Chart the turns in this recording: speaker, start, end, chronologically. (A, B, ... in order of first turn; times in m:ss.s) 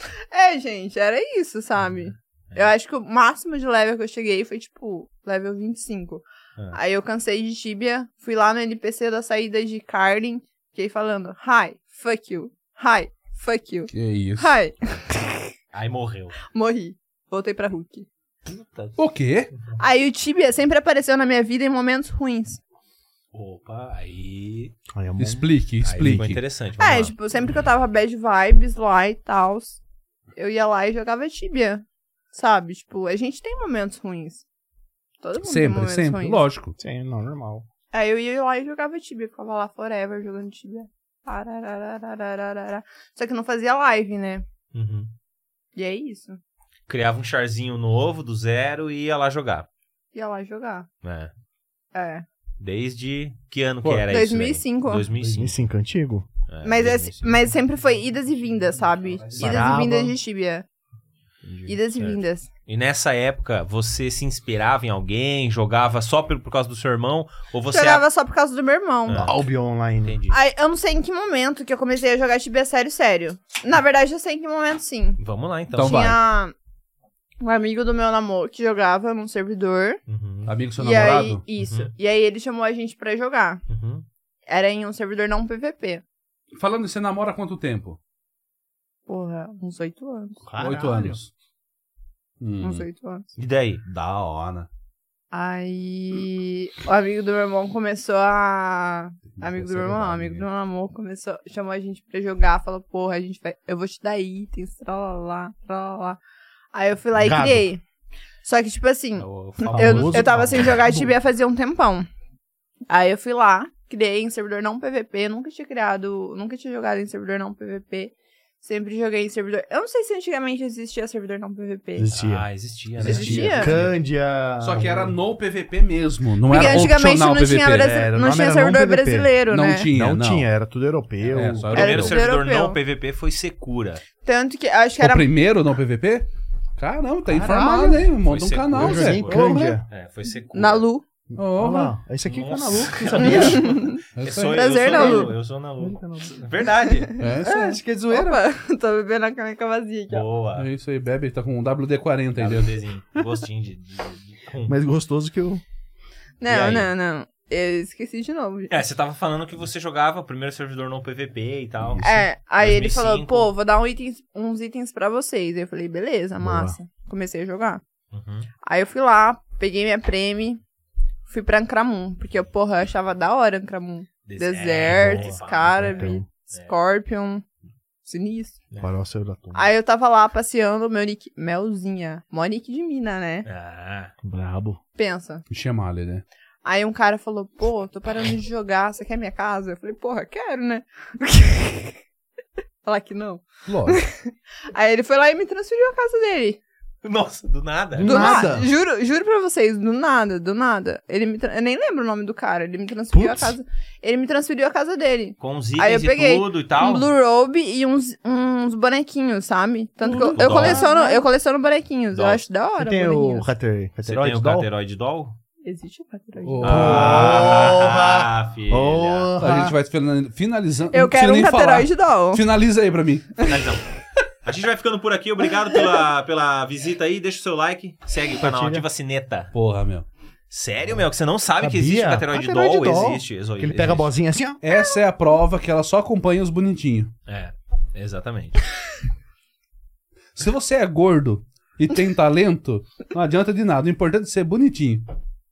0:00.3-0:15.5 A
0:13.9-0:14.6 B
0:15.7-0:16.4 C
0:16.4-0:18.1 A
0:18.5-0:19.0 C
0:19.0-0:19.5 B
0:19.8-0:22.6 A
0:23.3-0:24.8 C
0:24.9-0:26.3 D
0:25.2-0:26.4 B
0:25.8-0:27.2 C
0:26.8-0:29.8 A
0:30.4-0:34.4 A
0:35.2-0:36.4 A
0:35.4-0:36.8 B
0:36.8-0:37.7 D
0:37.9-0:44.4 A
0:44.7-0:45.1 C
0:45.8-0:46.4 A
0:46.9-0:49.7 C
0:50.2-0:50.9 A
0:51.0-0:51.3 C
0:51.9-0:52.2 A
0:52.6-0:55.6 C
0:54.1-0:55.1 A
0:55.2-0:56.3 D
0:56.5-0:57.4 C
0:56.6-1:00.6 A
0:59.4-1:00.2 D
0:59.4-0:59.6 B
1:01.6-1:02.5 A
1:02.0-1:08.0 C
1:07.7-1:09.3 A
1:09.1-1:09.4 C
1:09.2-1:10.2 D
1:10.0-1:10.4 C
1:10.3-1:15.2 A
1:15.2-1:16.0 C
1:15.7-1:16.5 A
1:15.7-1:16.2 B
1:17.4-1:20.0 A
1:20.1-1:20.5 C
1:20.5-1:21.4 B
1:20.8-1:23.6 A
1:21.6-1:21.9 C
1:23.7-1:24.0 C
1:24.5-1:26.0 A
1:26.6-1:28.0 B
1:29.1-1:30.4 A
1:30.4-1:31.2 D
1:30.6-1:31.3 B
1:32.4-1:32.9 B
1:32.6-1:33.3 A
1:33.4-1:33.8 C
1:33.8-1:34.7 B
1:35.3-1:46.2 A
1:39.3-1:40.5 B
1:46.7-1:47.8 A
1:47.2-1:47.7 D
1:48.4-1:52.1 A
1:49.2-1:50.8 C
1:49.7-1:51.1 D
1:52.9-2:02.1 A
2:02.0-2:05.1 D
2:02.1-2:04.0 C
2:03.0-2:03.8 A
2:03.2-2:03.5 B
2:04.6-2:08.0 B
2:06.5-2:09.9 A
2:06.6-2:06.9 D
2:07.8-2:12.0 D
2:09.5-2:10.5 B
2:11.2-2:14.0 C
2:11.3-2:12.2 B
2:11.7-2:12.8 A
2:14.2-2:15.3 A
2:15.0-2:19.8 B
2:17.3-2:18.1 D
2:18.2-2:20.9 C
2:18.7-2:19.8 D
2:20.5-2:21.0 A
2:21.3-2:23.9 D
2:21.4-2:22.0 B
2:22.2-2:27.1 C
2:23.2-2:23.6 B
2:23.2-2:25.4 A
2:24.2-2:24.7 B
2:24.9-2:26.4 D
2:26.9-2:30.3 A
2:27.2-2:27.7 B
2:27.4-2:28.4 D
2:30.1-2:30.7 C
2:30.6-2:32.7 B
2:32.4-2:34.8 C
2:34.7-2:35.6 D
2:36.4-2:38.8 A
2:36.5-2:36.9 C
2:38.7-2:43.5 C
2:42.0-2:47.8 A
2:46.4-2:46.8 D
2:48.1-2:48.5 C
2:48.6-2:50.6 A
2:51.3-2:57.4 A
2:54.3-2:56.7 C
2:54.9-2:55.3 D
2:55.9-2:56.2 D
2:58.1-2:58.6 A
2:58.8-2:59.7 D
2:59.6-3:03.5 A
3:03.5-3:04.1 C
3:04.2-3:04.8 D
3:05.0-3:05.4 A
3:05.5-3:06.2 B
3:06.6-3:12.0 A
3:12.8-3:16.6 A
3:13.7-3:14.0 B
3:17.0-3:18.6 C
3:18.0-3:18.7 D
3:18.0-3:33.5 A
3:23.1-3:23.6 D
3:25.4-3:27.1 C
3:30.0-3:31.2 D
3:30.1-3:30.9 C
3:32.1-3:32.4 C
3:32.8-3:34.7 D
3:34.0-3:35.4 C
3:35.6-3:37.1 A
3:36.4-3:37.5 B
3:36.6-3:39.3 C
3:36.6-3:39.8 D
3:39.4-3:43.4 B
3:40.9-3:42.4 A
3:43.4-3:43.9 C
3:44.4-3:49.5 C
3:48.4-3:48.8 D
3:49.5-3:50.1 B
3:50.5-3:54.1 C
3:51.6-3:54.6 D
3:54.6-3:57.1 B
3:57.3-3:58.7 C
4:00.4-4:05.0 B